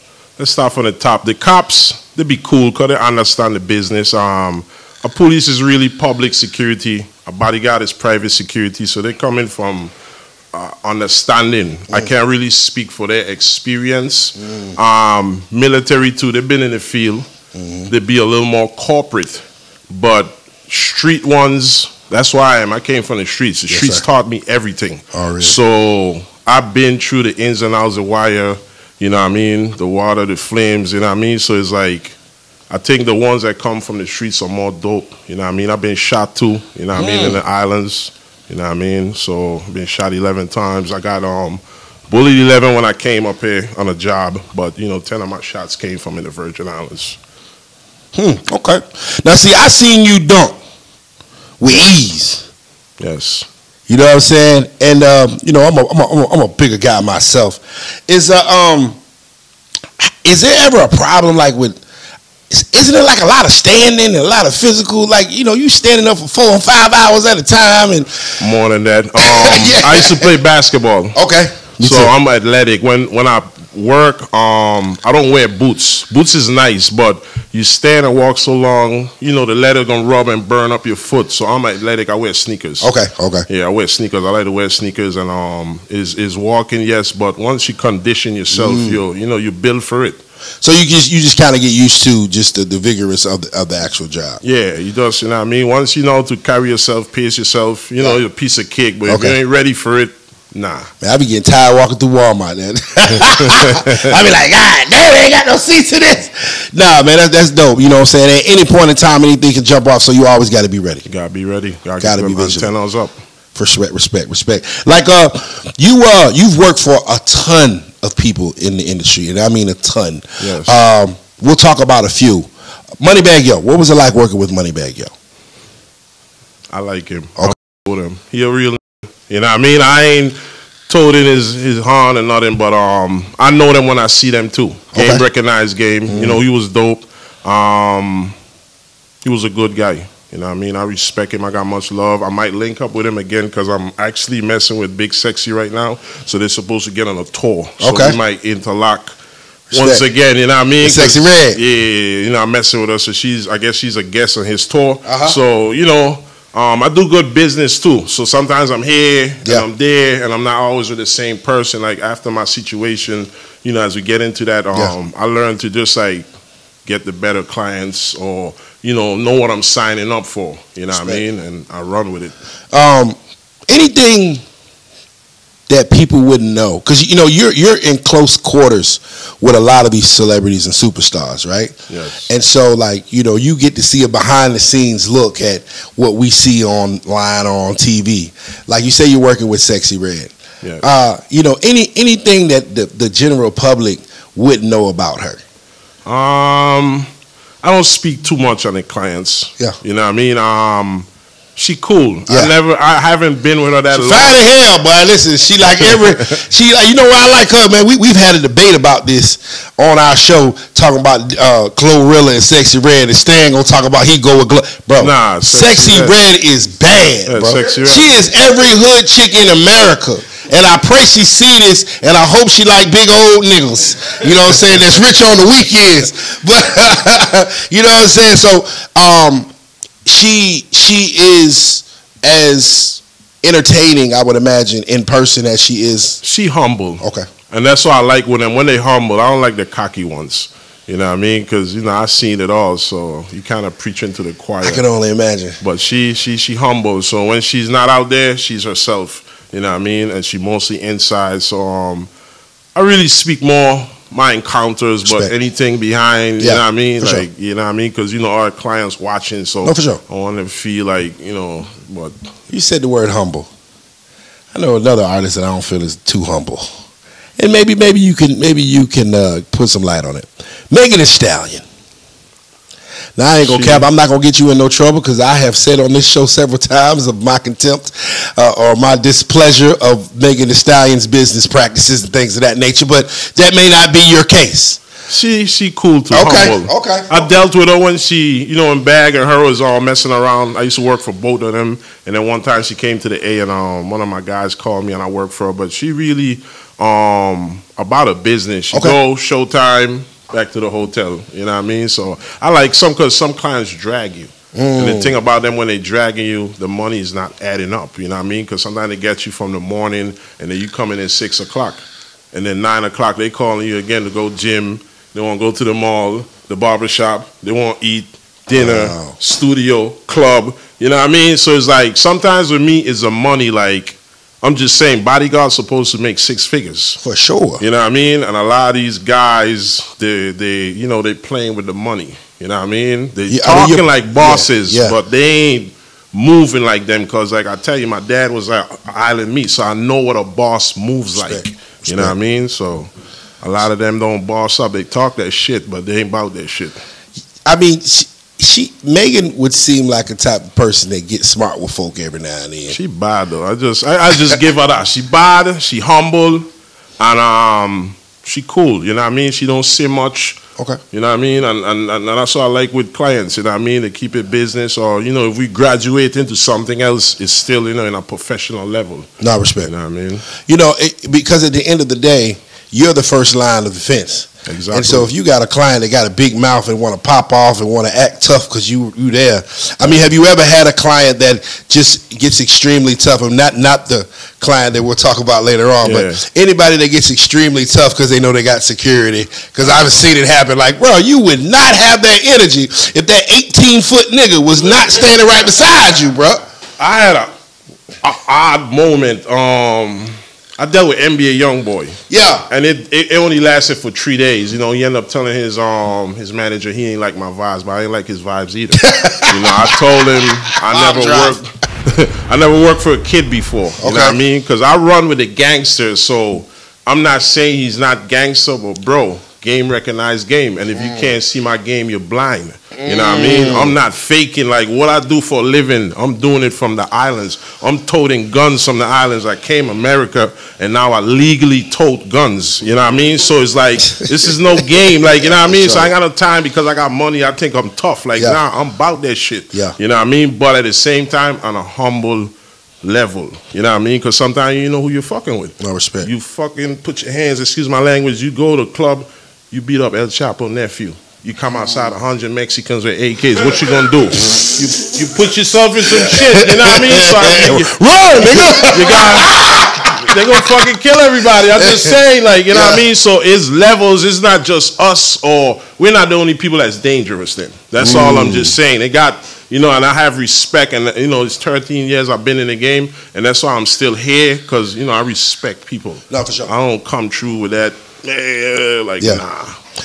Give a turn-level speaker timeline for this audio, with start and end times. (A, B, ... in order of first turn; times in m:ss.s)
0:00.4-0:09.9 A
0:10.5-0:17.3 A
0:14.4-0:14.8 B
0:17.6-0:17.9 B
0:17.9-0:32.2 A
0:23.7-0:24.0 B
0:25.1-0:25.6 B
0:32.7-0:47.2 A
0:37.0-0:37.4 B
0:48.1-0:50.6 B
0:51.6-0:52.5 B
0:53.0-0:53.5 A
0:53.9-0:59.0 B
1:00.0-1:01.8 B
1:02.5-1:08.4 B
1:08.4-1:11.2 A
1:09.2-1:10.3 B
1:11.2-1:12.1 B
1:11.8-1:22.9 A
1:22.8-1:23.5 B
1:23.5-1:30.2 A
1:28.5-1:29.0 B
1:30.6-1:34.4 B
1:34.4-1:40.9 A
1:39.1-1:39.4 B
1:41.0-1:51.0 B
1:43.2-1:43.9 A
1:51.0-1:53.2 A
1:52.0-1:52.7 B
1:53.6-2:02.5 B
2:00.4-2:00.8 A
2:03.0-2:05.1 B
2:06.7-2:18.4 A
2:15.0-2:15.2 B
2:16.1-2:16.4 B
2:19.2-2:29.2 A
2:27.8-2:28.2 B
2:29.7-2:30.0 B
2:29.7-2:46.3 A
2:30.8-2:31.6 B
2:35.0-2:35.4 B
2:46.9-2:52.3 A
2:50.9-2:51.2 B
2:52.7-2:53.2 B
2:53.7-2:54.4 B
2:55.7-3:01.8 B
3:01.9-3:02.3 A
3:02.3-3:15.4 B
3:16.0-3:17.1 A
3:17.6-3:24.4 A
3:22.3-3:22.5 B
3:23.9-3:49.5 B
3:25.8-3:26.4 A
3:35.0-3:36.2 A
3:37.3-3:38.2 A
3:50.1-3:56.2 B
3:56.2-4:04.8 A
3:57.0-3:57.3 B
4:04.6-4:05.6 B
4:05.6-4:12.1 A
4:12.8-4:22.2 A
4:15.1-4:15.3 B
4:16.4-4:17.2 B
4:19.6-4:20.0 B
4:22.5-4:23.5 B
4:24.5-4:26.7 B
4:27.4-4:31.6 B
4:33.2-4:44.8 B
4:33.4-4:33.9 A
4:45.1-5:27.0 A
4:46.1-4:47.3 B
5:04.6-5:05.2 B
5:18.6-5:19.2 B
5:27.0-5:27.6 B
5:27.6-5:42.9 A
5:33.3-5:35.0 B
5:41.2-5:42.2 B
5:43.4-5:46.8 A
5:47.4-5:52.8 B
5:52.7-5:56.5 A
5:57.0-6:00.4 A
6:00.9-6:09.1 A
6:09.2-6:09.7 B
6:09.6-6:10.3 A
6:10.4-6:36.4 B
6:14.5-6:15.1 A
6:25.8-6:26.2 A
6:36.8-6:37.3 A
6:38.0-7:59.6 A
6:42.1-6:42.5 B
6:48.8-6:49.8 B
6:50.5-6:51.4 B
6:53.8-6:54.2 B
7:00.7-7:01.1 B
7:02.8-7:03.8 B
7:15.2-7:15.9 B
7:25.6-7:26.1 B
7:36.0-7:40.2 B
7:41.6-7:41.9 B
7:42.5-7:42.8 B
7:47.8-7:48.6 B
7:56.1-7:56.5 B